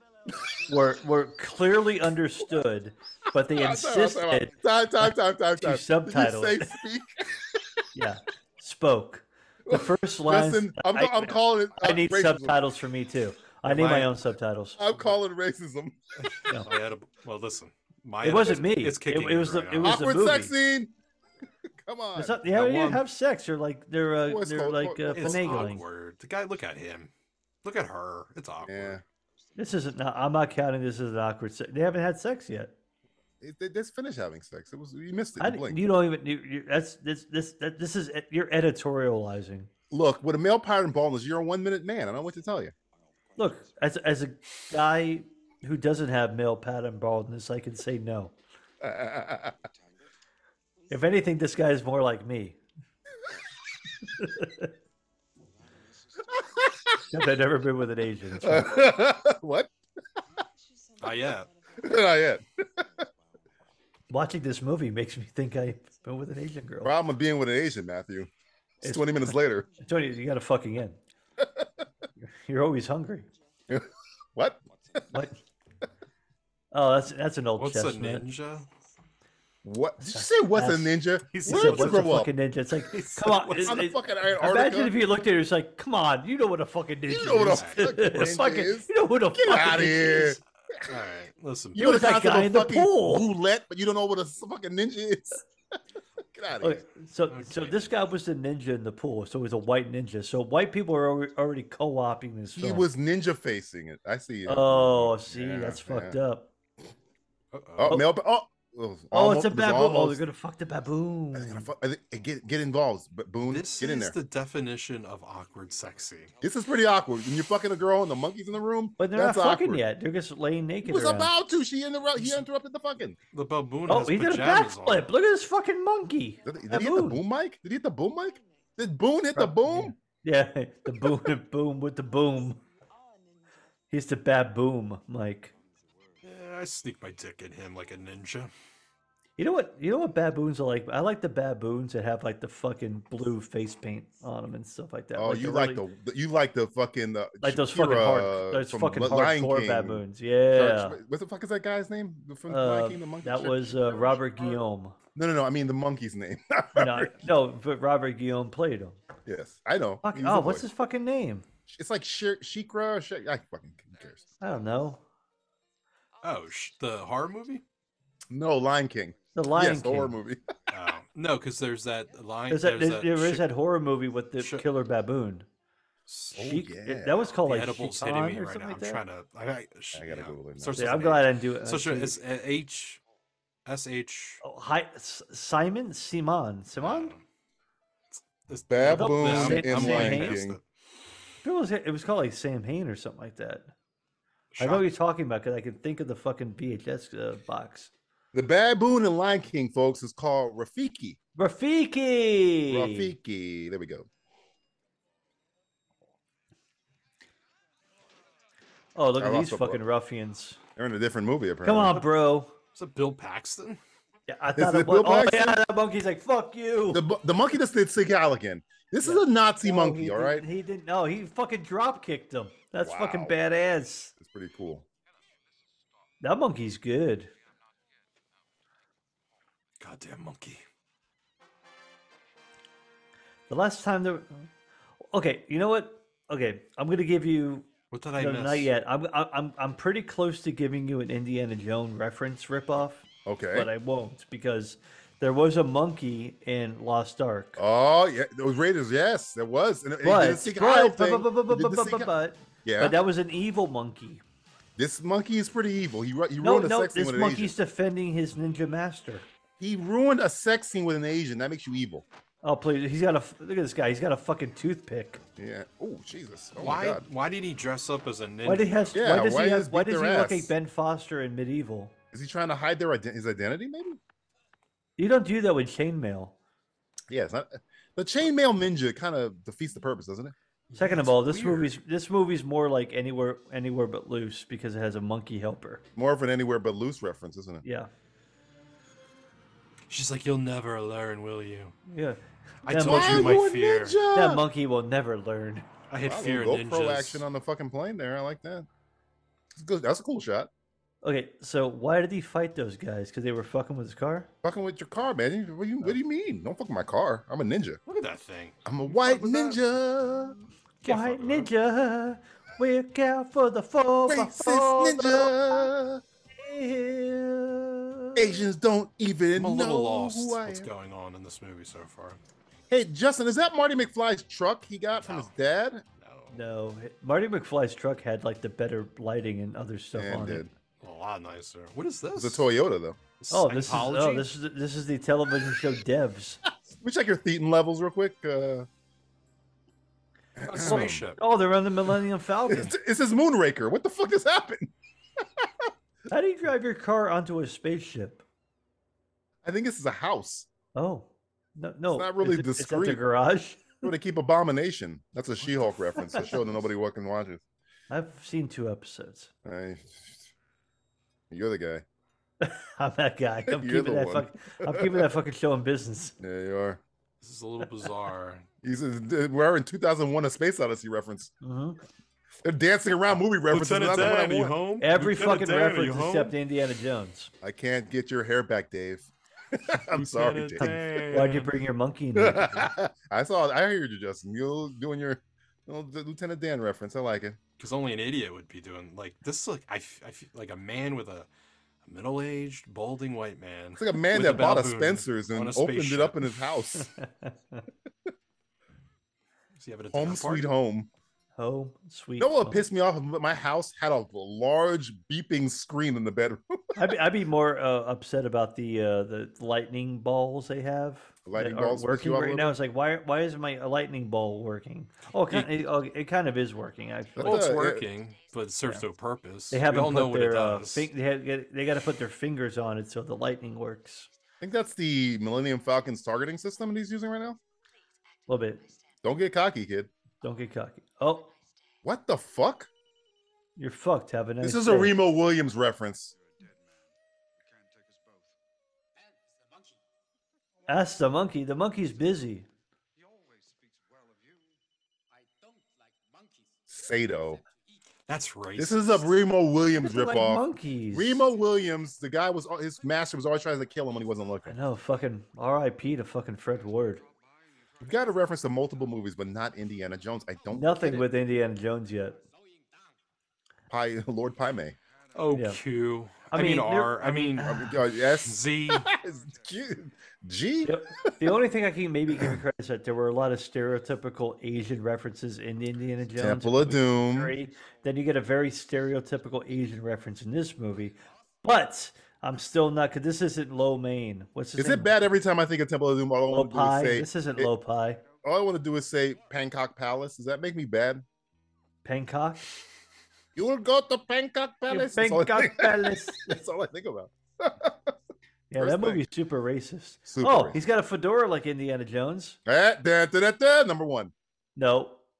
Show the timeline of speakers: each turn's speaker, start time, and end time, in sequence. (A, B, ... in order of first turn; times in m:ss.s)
0:00.6-0:06.8 A
0:03.4-0:07.6 B
0:07.9-0:14.8 A
0:09.6-0:12.7 B
0:13.6-0:14.1 C
0:14.8-0:16.0 B
0:16.2-0:19.9 C
0:18.2-0:20.5 A
0:19.8-0:20.9 B
0:21.8-0:22.4 B
0:22.1-0:25.8 A
0:22.5-0:23.0 C
0:24.2-0:25.7 B
0:25.1-0:27.1 C
0:27.6-0:29.0 C
0:28.6-0:29.0 B
0:29.6-0:32.7 A
0:33.4-0:35.9 B
0:35.4-0:39.7 A
0:39.9-0:42.7 B
0:43.4-0:48.3 A
0:48.8-0:49.6 B
0:50.9-0:52.6 A
0:54.1-0:54.7 A
0:56.3-0:57.0 B
0:57.1-0:58.8 A
0:58.4-0:59.7 B
1:01.0-1:01.5 C
1:01.8-1:03.0 B
1:04.1-1:06.9 A
1:06.8-1:08.3 B
1:08.8-1:09.7 B
1:08.8-1:11.0 A
1:11.4-1:11.6 B
1:12.4-1:13.3 A
1:13.7-1:14.6 B
1:15.1-1:15.4 A
1:16.7-1:18.2 A
1:17.6-1:18.7 C
1:19.6-1:22.3 B
1:20.0-1:30.4 A
1:21.3-1:22.2 C
1:23.0-1:23.6 C
1:23.5-1:25.0 B
1:27.1-1:30.8 B
1:27.4-1:28.3 C
1:30.8-1:31.9 C
1:31.7-1:35.4 B
1:31.8-1:33.3 A
1:36.3-1:36.8 B
1:36.6-1:42.9 A
1:37.3-1:37.9 C
1:42.5-1:46.2 B
1:44.4-1:46.5 A
1:47.5-1:48.0 C
1:47.8-1:50.2 B
1:49.1-1:51.7 A
1:51.3-1:54.2 B
1:53.5-1:56.3 C
1:56.4-1:59.8 B
1:59.0-2:01.3 A
2:00.8-2:03.2 B
2:03.3-2:05.1 C
2:03.9-2:07.2 A
2:06.4-2:10.0 B
2:09.3-2:12.6 A
2:13.9-2:15.5 A
2:16.2-2:18.5 C
2:19.4-2:25.8 A
2:25.2-2:34.4 B
2:27.4-2:31.0 A
2:32.5-2:35.0 A
2:35.1-2:37.2 B
2:36.7-2:39.0 A
2:39.2-2:40.7 B
2:40.0-2:41.4 A
2:41.7-2:44.2 B
2:44.4-2:45.0 A
2:46.2-2:47.6 C
2:48.3-2:50.5 B
2:49.3-2:50.2 A
2:50.7-2:53.5 C
2:52.5-2:55.4 A
2:54.4-2:54.6 C
2:56.1-2:56.5 C
2:56.3-2:57.3 B
2:56.4-2:59.0 A
2:57.3-3:03.0 C
2:59.9-3:01.0 B
3:00.8-3:02.2 A
3:03.6-3:04.4 C
3:04.4-3:07.1 A
3:06.8-3:07.2 C
3:08.1-3:10.6 C
3:08.7-3:10.6 B
3:08.9-3:10.4 A
3:11.4-3:13.7 A
3:14.5-3:14.8 C
3:14.6-3:17.9 A
3:18.3-3:21.2 B
3:21.4-3:23.1 A
3:22.7-3:24.1 B
3:29.0-3:30.6 A
3:29.2-3:29.8 B
3:30.8-3:32.0 B
3:31.6-3:32.5 A
3:32.7-3:33.8 C
3:34.3-3:37.0 A
3:34.6-3:35.6 B
3:36.9-3:40.4 B
3:39.0-3:44.1 A
3:42.8-3:43.4 B
3:44.2-3:44.8 B
3:46.2-3:47.3 A
3:49.8-3:50.6 C
3:53.5-3:54.5 A
3:55.1-4:07.6 A
3:57.9-3:58.7 C
4:03.2-4:03.7 B
4:07.6-4:12.1 B
4:10.0-4:14.2 A
4:12.6-4:13.0 B
4:14.8-4:17.5 B
4:16.4-4:19.3 A
4:19.6-4:22.0 B
4:22.4-4:25.2 A
4:25.4-4:27.0 B
4:26.6-4:28.9 C
4:28.4-4:31.9 A
4:28.9-4:30.5 B
4:32.1-4:34.0 B
4:35.0-4:36.3 A
4:37.1-4:40.3 B
4:40.7-4:41.7 C
4:40.8-4:45.8 A
4:46.0-4:47.6 B
4:47.6-4:47.9 A
4:49.9-4:51.7 C
4:51.9-4:53.4 A
4:52.6-4:54.0 C
4:52.8-4:54.4 B
4:54.1-4:55.7 A
4:55.9-4:57.2 C
4:56.0-4:58.7 B
4:59.5-5:00.5 B
5:01.0-5:04.3 A
5:04.4-5:07.8 B
5:07.9-5:09.6 C
5:08.6-5:10.4 B
5:10.8-5:11.5 C
5:10.8-5:15.7 A
5:14.0-5:16.0 B
5:16.3-5:18.4 A
5:18.2-5:20.7 B
5:19.4-5:22.2 C
5:22.7-5:25.8 B
5:25.0-5:25.3 C
5:26.0-5:26.4 C
5:26.3-5:30.5 A
5:29.9-5:30.5 B
5:30.8-5:32.5 C
5:32.2-5:33.0 B
5:33.2-5:34.3 C
5:33.3-5:36.4 A
5:36.7-5:38.7 B
5:40.4-5:41.0 B
5:40.4-5:41.2 C
5:40.6-5:42.7 A
5:42.5-5:45.7 B
5:46.1-5:48.2 A
5:49.4-5:50.5 B
5:50.7-5:53.8 A
5:51.9-5:53.0 B
5:53.8-5:57.4 B
5:56.0-5:56.2 A
5:57.9-5:59.3 A
5:59.4-6:00.3 B
6:01.3-6:01.8 B
6:02.4-6:06.2 A
6:03.5-6:05.1 B
6:06.2-6:06.8 B
6:07.2-6:08.4 C
6:08.6-6:11.3 B
6:11.4-6:11.8 A
6:12.4-6:14.5 B
6:13.5-6:16.3 C
6:14.8-6:17.3 A
6:17.4-6:20.7 B
6:19.9-6:21.5 C
6:20.6-6:22.7 A
6:22.1-6:27.4 B
6:27.6-6:31.3 C
6:31.8-6:36.2 C
6:33.8-6:36.9 B
6:36.8-6:37.6 A
6:39.6-6:40.5 C
6:39.9-6:40.9 B
6:41.4-6:42.6 A
6:42.2-6:46.9 B
6:46.7-6:57.5 A
6:51.2-6:52.6 B
6:57.2-6:57.9 B
6:57.2-7:00.9 C
6:59.5-7:04.1 A
7:04.4-7:07.4 B
7:08.3-7:08.6 A
7:09.0-7:09.9 B
7:10.2-7:11.3 A
7:11.8-7:12.7 B
7:13.6-7:14.9 A
7:14.4-7:16.1 B
7:20.7-7:22.5 A
7:26.7-7:27.4 B
7:28.1-7:29.1 C
7:28.6-7:34.6 B
7:29.8-7:31.2 A
7:34.4-7:37.0 A
7:37.8-7:41.0 B
7:40.5-7:42.2 A
7:43.7-7:44.8 B
7:45.1-7:47.7 C
7:45.3-7:45.6 A
7:46.3-7:47.8 A
7:47.4-7:51.1 B
7:48.2-7:48.9 C
7:50.6-8:04.9 A
7:56.2-7:57.3 B
8:04.6-8:07.5 B
8:06.3-8:08.0 A
8:08.2-8:11.0 B
8:11.8-8:12.5 A
8:13.3-8:17.9 B
8:14.7-8:16.4 A
8:18.5-8:22.4 A
8:18.6-8:19.0 B
8:20.1-8:20.6 B
8:22.4-8:24.1 B
8:24.6-8:25.0 A